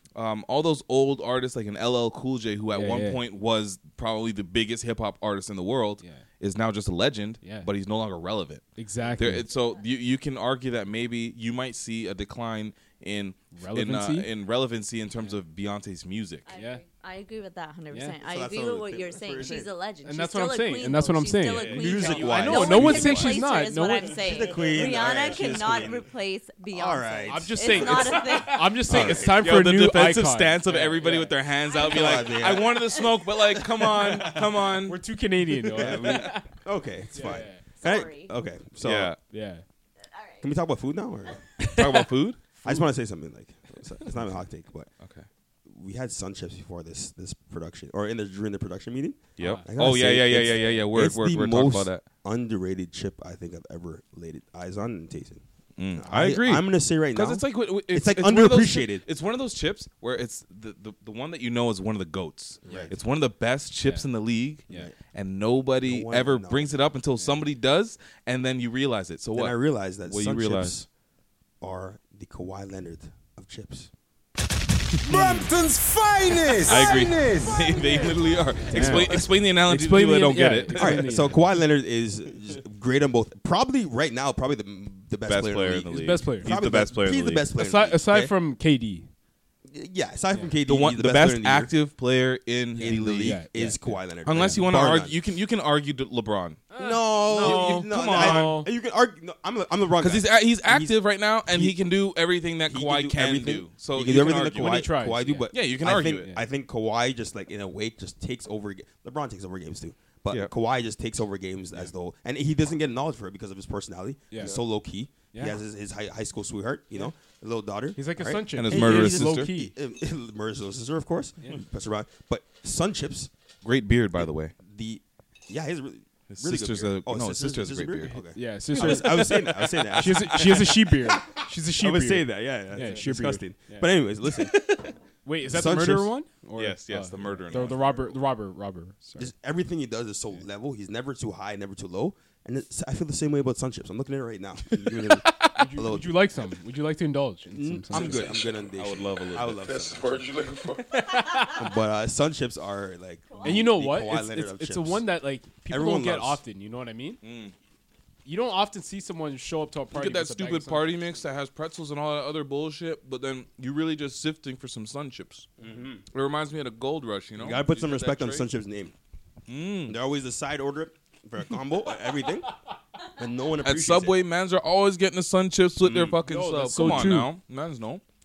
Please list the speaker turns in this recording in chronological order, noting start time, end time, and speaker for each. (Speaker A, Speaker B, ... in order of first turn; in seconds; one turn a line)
Speaker A: 0.1-8.7
Speaker B: 2.7-3.2
Speaker B: 7.4-7.7
Speaker B: 8.8-9.5
Speaker A: 9.2-16.5
Speaker B: 13.5-14.3
Speaker C: 16.5-28.9
Speaker B: 16.6-16.8
Speaker B: 17.9-18.2
Speaker D: 18.2-19.7
Speaker B: 20.0-24.2
Speaker A: 21.6-22.6
Speaker D: 21.7-23.4
Speaker D: 24.1-26.1
Speaker D: 26.7-28.3
Speaker B: 27.3-31.4
Speaker D: 28.9-29.5
Speaker A: 28.9-35.0
Speaker C: 31.7-33.2
Speaker D: 31.8-32.8
Speaker D: 33.8-34.5
Speaker B: 34.9-36.5
Speaker D: 35.7-39.1
Speaker A: 35.8-36.1
Speaker B: 37.1-37.6
Speaker C: 37.7-38.3
Speaker A: 38.8-39.2
Speaker B: 39.3-39.6
Speaker C: 40.0-40.5
Speaker D: 40.4-41.4
Speaker B: 41.6-41.9
Speaker A: 41.7-42.4
Speaker B: 42.6-42.9
Speaker D: 42.6-44.9
Speaker A: 45.0-45.3
Speaker D: 45.7-55.4
Speaker A: 49.4-52.0
Speaker B: 49.4-49.7
Speaker A: 55.8-70.8
Speaker D: 56.0-59.0
Speaker D: 62.6-63.0
Speaker B: 62.7-62.9
Speaker D: 64.7-65.0
Speaker D: 65.8-66.9
Speaker D: 69.3-70.9
Speaker D: 71.6-73.9
Speaker E: 75.0-78.1
Speaker D: 75.1-75.5
Speaker A: 76.7-81.2
Speaker B: 78.7-81.5
Speaker D: 78.7-79.3
Speaker D: 80.7-88.3
Speaker A: 85.2-87.5
Speaker B: 85.9-86.5
Speaker B: 87.6-89.1
Speaker D: 89.7-91.7
Speaker A: 90.7-93.5
Speaker B: 92.7-94.6
Speaker D: 92.8-95.2
Speaker A: 94.2-96.6
Speaker B: 96.7-98.7
Speaker D: 96.8-101.8
Speaker A: 97.3-98.6
Speaker A: 100.0-104.9
Speaker D: 102.7-123.3
Speaker B: 104.5-105.5
Speaker A: 105.5-106.3
Speaker B: 114.3-114.6
Speaker B: 115.3-115.6
Speaker B: 118.0-119.7
Speaker A: 118.5-119.5
Speaker A: 123.6-124.5
Speaker D: 124.2-131.1
Speaker A: 126.3-128.2
Speaker B: 128.3-133.9
Speaker A: 128.7-129.2
Speaker D: 131.8-134.6
Speaker B: 135.2-139.3
Speaker D: 135.4-136.1
Speaker A: 136.6-138.0
Speaker D: 137.5-137.8
Speaker D: 139.2-146.2
Speaker B: 144.9-148.3
Speaker D: 147.5-150.2
Speaker A: 147.9-150.8
Speaker B: 150.9-151.6
Speaker D: 151.6-155.1
Speaker C: 153.3-153.7
Speaker B: 153.4-157.2
Speaker D: 155.7-156.4
Speaker A: 157.2-157.6
Speaker B: 158.3-161.2
Speaker A: 159.9-165.5
Speaker D: 165.6-166.0
Speaker A: 166.1-168.5
Speaker D: 167.4-168.9
Speaker A: 169.5-170.0
Speaker D: 169.9-172.5
Speaker D: 173.2-174.3
Speaker A: 173.6-178.0
Speaker D: 175.8-176.2
Speaker B: 176.3-177.3